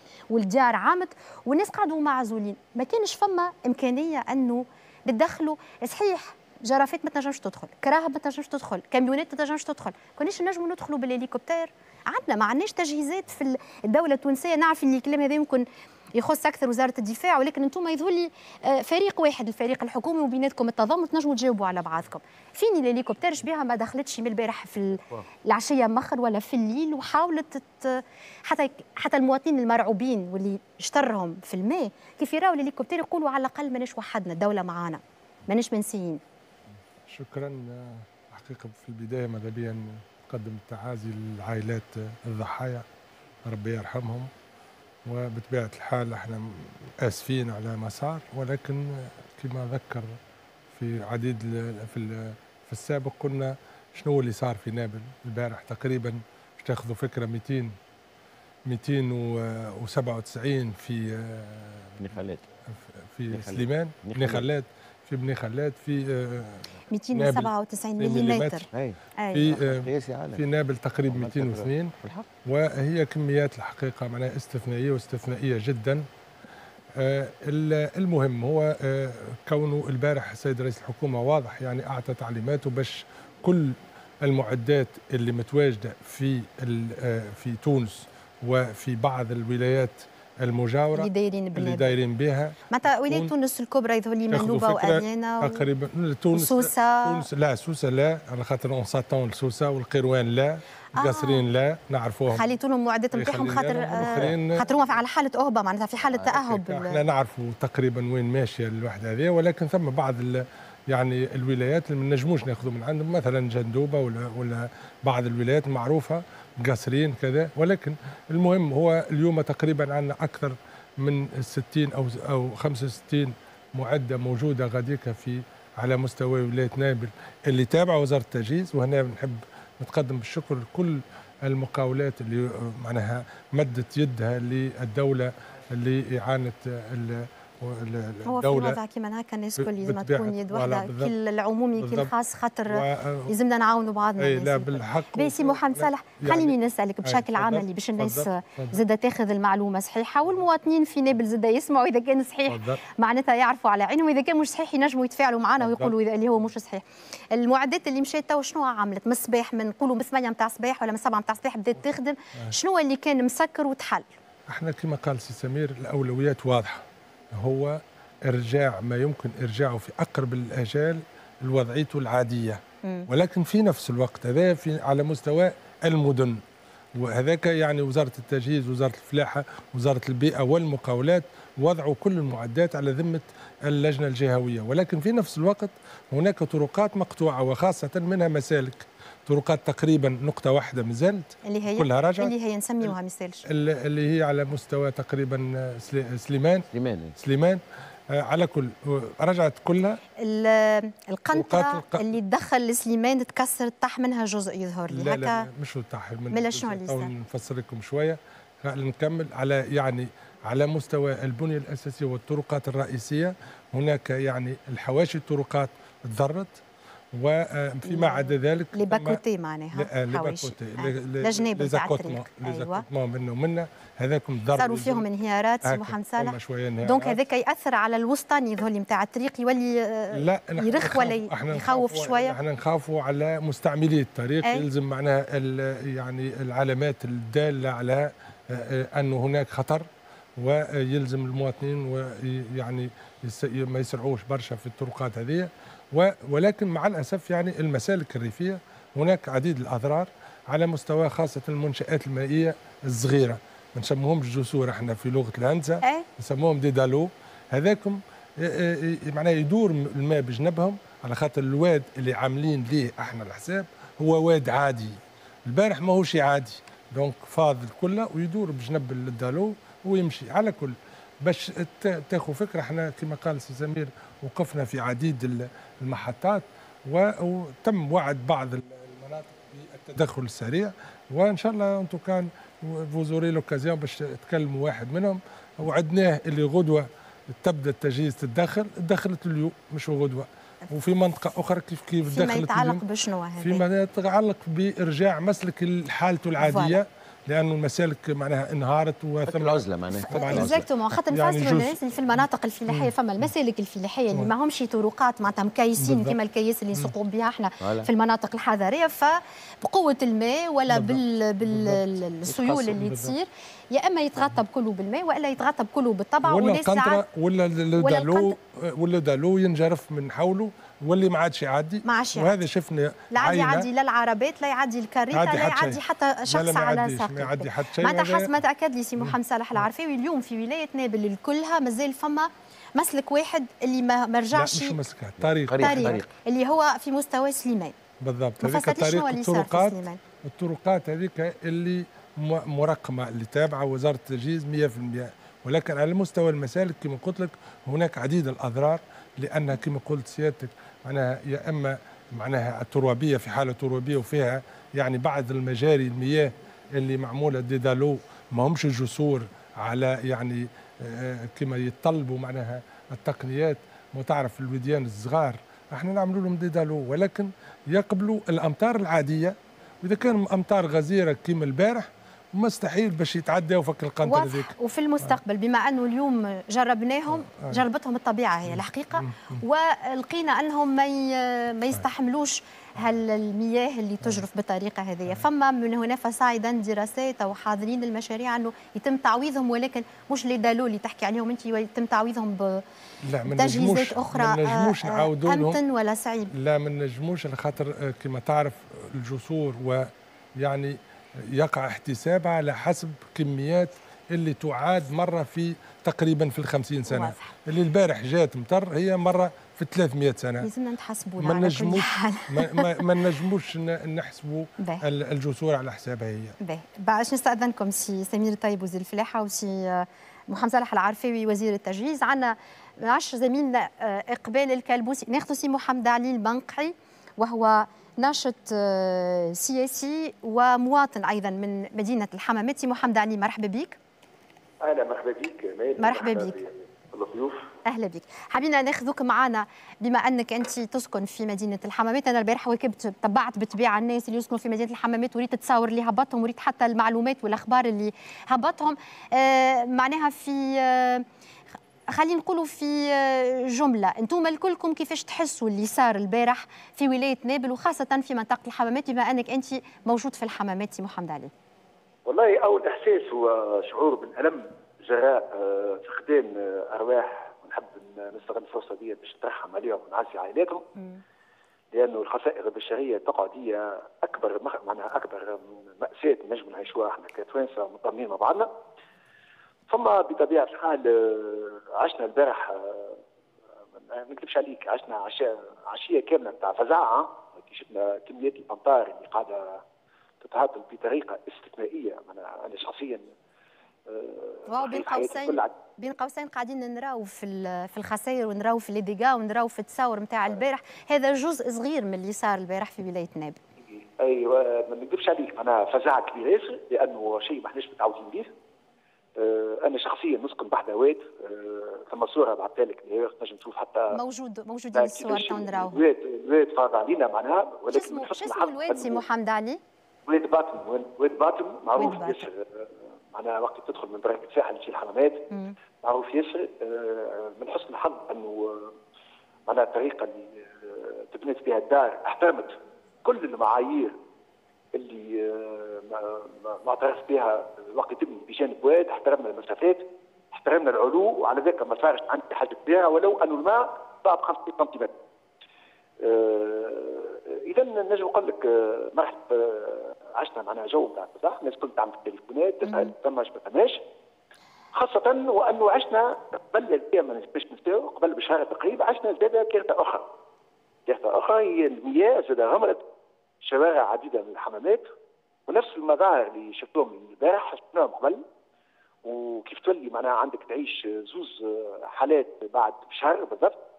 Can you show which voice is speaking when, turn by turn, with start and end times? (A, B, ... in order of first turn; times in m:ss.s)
0:00.3-0:36.2 A
0:37.1-0:42.8 B
0:43.5-0:44.3 B
0:45.1-0:50.2 B
0:50.7-0:57.7 B
0:58.7-1:02.0 B
1:02.0-1:02.4 C
1:03.1-1:08.7 B
1:03.3-1:04.5 C
1:06.9-1:08.7 A
1:08.7-1:10.4 C
1:09.2-1:09.5 A
1:09.3-1:11.9 B
1:11.1-1:12.3 C
1:12.4-1:16.0 B
1:17.0-1:32.6 B
1:31.0-1:31.9 A
1:32.7-1:35.7 A
1:34.3-1:42.4 B
1:36.3-1:37.2 A
1:41.0-1:41.4 A
1:42.3-1:47.0 A
1:43.1-1:44.6 B
1:46.1-2:18.8 B
2:18.2-2:44.1 A
2:19.6-2:21.1 B
2:21.8-2:22.1 B
2:22.7-2:23.3 B
2:24.2-2:28.8 B
2:32.5-2:32.8 B
2:35.6-2:35.9 B
2:44.5-2:56.4 B
2:57.0-3:12.3 B
3:11.5-3:13.4 A
3:13.5-3:16.7 B
3:16.7-3:17.2 C
3:17.2-3:20.0 B
3:20.2-3:25.4 A
3:21.3-3:22.1 B
3:24.9-3:36.6 B
3:26.3-3:27.1 A
3:37.1-3:39.2 B
3:37.8-3:42.8 A
3:39.8-3:45.0 B
3:44.6-3:52.4 A
3:45.6-3:47.2 B
3:50.2-3:59.9 B
4:00.4-4:52.8 B
4:52.1-4:53.6 A
4:53.4-5:01.8 B
4:56.4-4:56.8 A
4:59.3-5:00.6 C
5:00.0-5:17.0 A
5:05.8-5:06.2 B
5:07.6-5:07.9 C
5:10.7-5:13.2 B
5:16.2-5:23.7 B
5:17.8-5:18.4 A
5:21.8-5:22.3 A
5:23.1-5:34.8 A
5:25.1-5:28.4 B
5:29.0-5:29.6 B
5:34.3-5:36.0 B
5:35.2-5:36.1 C
5:35.6-5:37.8 A
5:38.0-6:15.2 B
5:38.4-5:40.0 A
6:14.0-6:32.6 A
6:17.1-6:17.6 B
6:18.5-6:19.4 B
6:33.0-6:35.6 B
6:33.3-6:36.3 A
6:36.3-6:50.5 B
6:46.9-6:47.3 A
6:50.4-6:52.6 A
6:51.2-6:56.3 B
6:56.4-7:13.8 A
7:14.6-7:17.5 D
7:15.8-7:16.4 A
7:17.6-7:31.0 A
7:31.9-7:41.3 A
7:42.0-7:50.6 D
7:50.8-7:51.0 A
7:51.7-7:58.5 D
7:59.7-8:03.0 D
8:03.8-8:09.6 D
8:10.2-8:13.1 D
8:13.9-8:15.5 D
8:14.5-8:23.4 A
8:23.7-8:28.3 D
8:29.2-8:34.0 D
8:33.9-8:35.8 A
8:34.8-8:39.0 D
8:37.7-8:39.6 A
8:40.1-8:45.3 D
8:41.8-8:42.2 A
8:45.8-8:48.7 D
8:49.5-8:53.9 D
8:54.7-9:04.9 D
9:06.0-9:13.8 D
9:12.6-9:12.9 A
9:14.7-9:20.1 D
9:20.9-9:22.8 D
9:23.4-9:24.9 D
9:25.5-9:28.2 D
9:29.0-9:33.6 D